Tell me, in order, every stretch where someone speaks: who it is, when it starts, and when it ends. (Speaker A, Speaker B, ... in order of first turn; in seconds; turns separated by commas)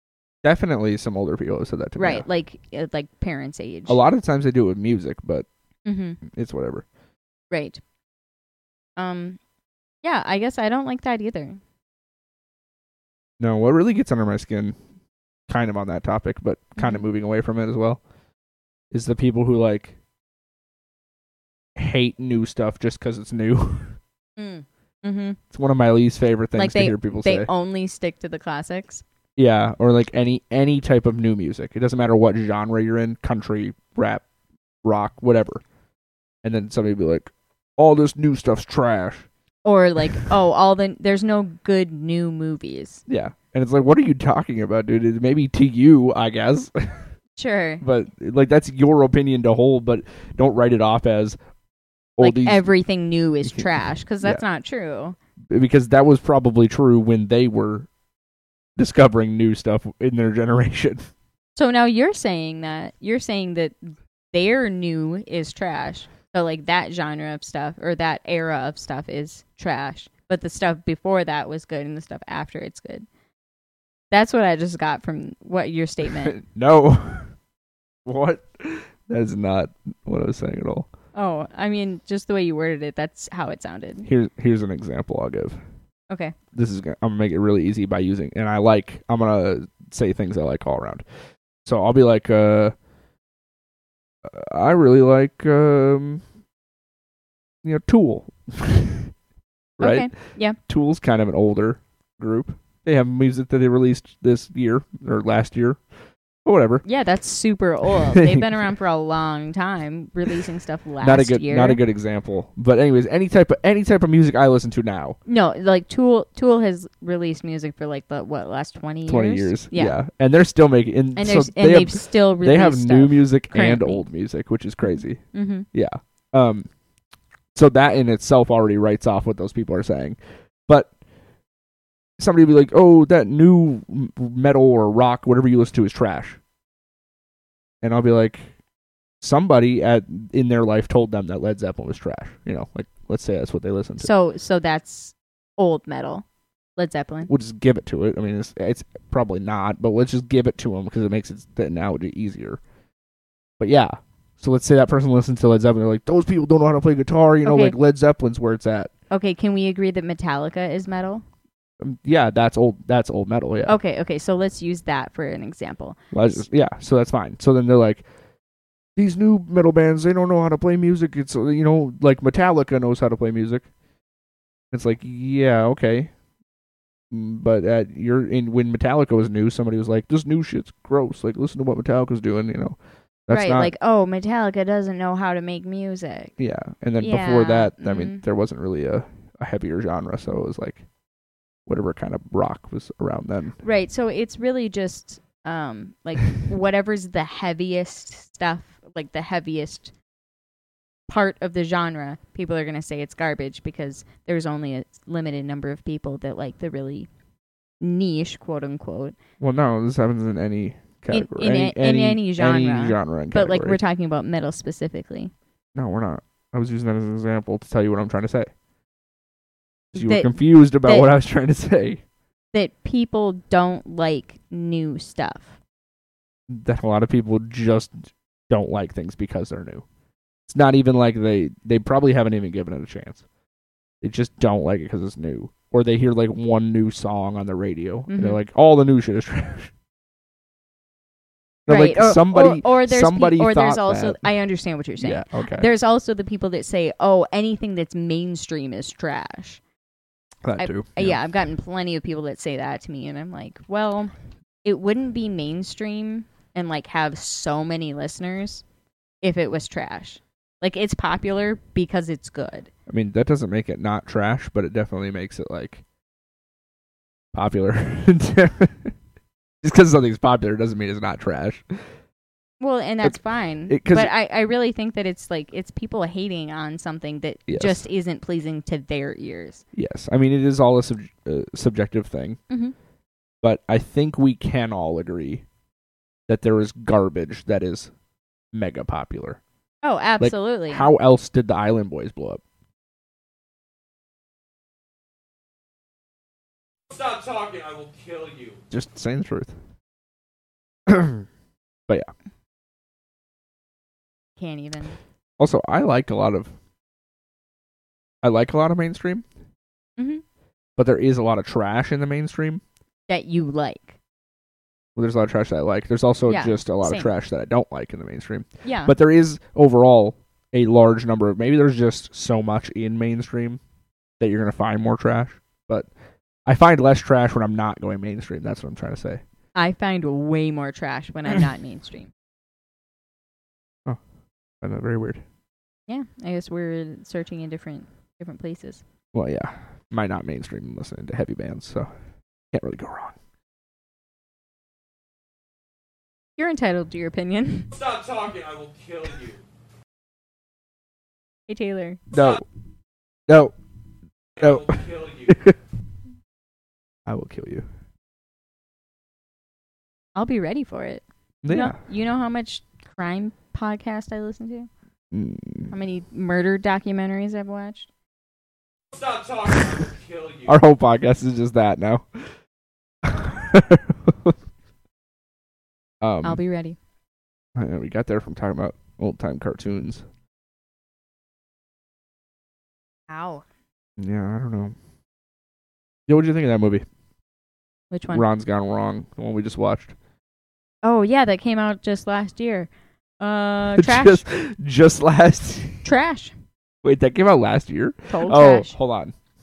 Speaker A: 0.4-2.2, Speaker B: 2.0-4.0, Speaker A: 3.9-5.5, Speaker B: 5.8-6.2, Speaker A: 6.2-6.8, Speaker B: 7.5-7.8, Speaker B: 9.0-9.4, Speaker B: 10.0-11.6, Speaker A: 13.4-14.8, Speaker A: 15.5-18.0, Speaker B: 16.8-17.0, Speaker A: 18.9-19.9, Speaker A: 21.8-24.0, Speaker B: 24.4-25.4, Speaker A: 25.5-27.5, Speaker B: 26.6-29.0, Speaker A: 29.4-34.2, Speaker A: 34.8-35.6, Speaker A: 36.4-39.3, Speaker B: 39.6-43.0, Speaker A: 43.1-47.0, Speaker B: 47.4-47.8, Speaker A: 47.8-51.4, Speaker A: 52.2-52.7, Speaker B: 52.2-55.1, Speaker A: 55.5-57.9, Speaker A: 58.8-61.1, Speaker B: 61.5-73.0, Speaker B: 74.1-76.4, Speaker A: 76.2-77.3, Speaker A: 78.0-80.9, Speaker B: 81.1-84.1, Speaker A: 84.0-85.6, Speaker B: 86.1-86.3, Speaker A: 86.5-91.0, Speaker A: 91.6-92.7, Speaker A: 94.2-96.2, Speaker A: 97.6-99.1, Speaker A: 99.8-105.8, Speaker B: 99.8-100.6, Speaker A: 106.4-106.8, Speaker B: 106.8-111.8, Speaker A: 108.1-108.4, Speaker A: 111.0-115.2, Speaker B: 115.2-120.0, Speaker A: 119.1-126.7, Speaker B: 121.2-124.0, Speaker B: 124.8-125.7, Speaker A: 127.5-130.9, Speaker A: 132.2-136.4, Speaker A: 137.8-138.5, Speaker A: 139.2-144.1, Speaker B: 144.0-146.2, Speaker B: 146.8-147.3, Speaker A: 147.3-152.6, Speaker A: 153.6-158.9, Speaker B: 157.4-157.7, Speaker B: 159.1-161.2, Speaker A: 161.8-163.8, Speaker B: 163.7-166.4, Speaker A: 166.1-168.0, Speaker A: 168.9-173.7, Speaker A: 174.7-176.1, Speaker A: 177.1-183.7, Speaker B: 183.3-186.3, Speaker A: 186.4-190.8, Speaker B: 187.0-188.2, Speaker A: 191.7-193.6, Speaker B: 193.6-199.9, Speaker B: 201.1-207.1, Speaker B: 207.8-209.2, Speaker A: 209.4-213.8, Speaker B: 211.1-215.3, Speaker A: 215.7-218.5, Speaker A: 219.9-222.0, Speaker B: 219.9-221.1, Speaker B: 222.5-225.6, Speaker A: 226.5-229.8, Speaker A: 230.5-233.2, Speaker A: 234.0-239.7, Speaker B: 238.1-238.4, Speaker A: 241.7-244.2, Speaker B: 241.7-249.6, Speaker A: 245.0-245.7, Speaker A: 250.4-251.2, Speaker B: 250.6-254.1, Speaker B: 254.6-258.6, Speaker B: 259.2-262.7, Speaker A: 262.9-265.8, Speaker A: 267.3-268.9, Speaker A: 269.6-271.8, Speaker B: 272.6-279.6, Speaker A: 273.7-274.1, Speaker A: 277.5-277.8, Speaker A: 279.7-282.4, Speaker A: 283.4-285.4, Speaker A: 286.3-287.9, Speaker A: 288.5-289.4, Speaker B: 289.8-290.9, Speaker A: 290.2-292.4, Speaker C: 296.9-298.6, Speaker A: 298.7-299.5, Speaker A: 300.9-301.2, Speaker B: 304.4-305.0, Speaker A: 305.4-306.5, Speaker A: 308.2-309.2, Speaker B: 310.0-310.2, Speaker A: 310.8-312.6, Speaker B: 313.1-313.9, Speaker A: 314.9-323.6, Speaker B: 316.3-317.1, Speaker B: 318.6-318.9, Speaker A: 324.2-325.9, Speaker A: 326.4-329.2, Speaker B: 329.5-332.1, Speaker A: 334.6-335.2, Speaker B: 335.9-338.8, Speaker A: 339.1-341.9, Speaker A: 342.5-343.2, Speaker B: 346.4-347.7, Speaker C: 347.7-349.4, Speaker B: 351.5-352.0, Speaker A: 352.1-352.4, Speaker A: 353.3-353.5, Speaker C: 354.4-355.5, Speaker A: 354.4-355.6, Speaker A: 357.1-357.6, Speaker B: 360.1-364.7, Speaker A: 361.4-361.8, Speaker A: 365.1-365.7, Speaker B: 365.7-367.9, Speaker C: 368.9-370.6, Speaker A: 370.5-372.3, Speaker A: 373.0-374.3, Speaker A: 376.0-376.4, Speaker B: 376.2-376.8, Speaker A: 377.6-380.0, Speaker B: 383.1-383.4, Speaker A: 384.0-384.7, Speaker A: 386.1-386.8, Speaker B: 387.9-388.2, Speaker A: 388.1-389.9, Speaker B: 390.8-394.2, Speaker A: 393.8-395.8, Speaker B: 395.8-396.3, Speaker A: 396.8-399.1, Speaker B: 398.1-398.7